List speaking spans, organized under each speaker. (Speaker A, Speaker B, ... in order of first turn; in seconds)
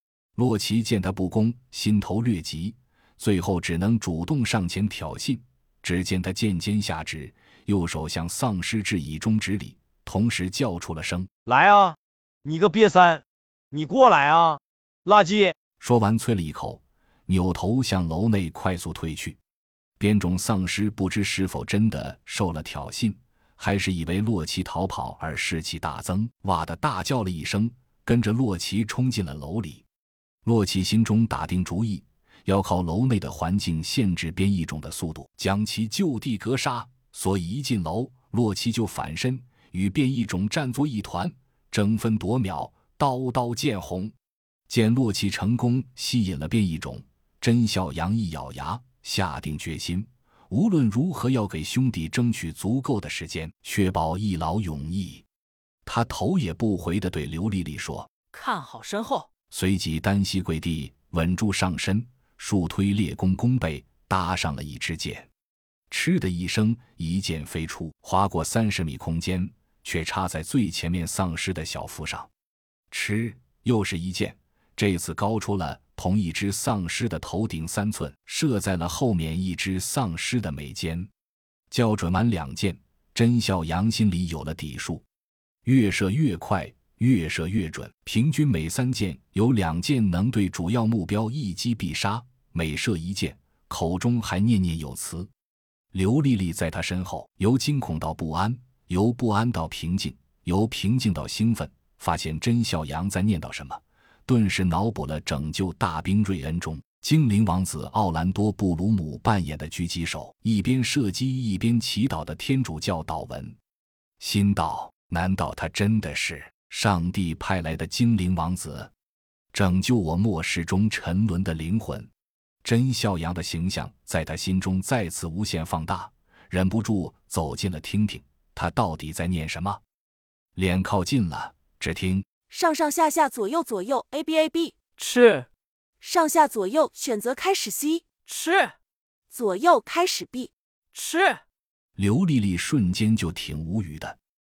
Speaker A: 0.3-11.3, 15.8-19.4, 20.0-29.8, 30.4-44.1, 44.7-55.2, 55.9-58.1, 59.5-65.3, 65.9-72.3, 72.9-81.1, 81.7-85.0, 85.6-95.3, 95.9-113.6, 114.2-118.9, 119.5-122.1, 122.6-129.8, 130.6-132.3, 142.0-144.2
Speaker B: 11.5-15.6
Speaker C: 58.3-59.3, 135.0-135.5, 138.2-138.7, 140.9-141.4
Speaker D: 132.5-134.9, 136.0-138.2, 139.3-140.5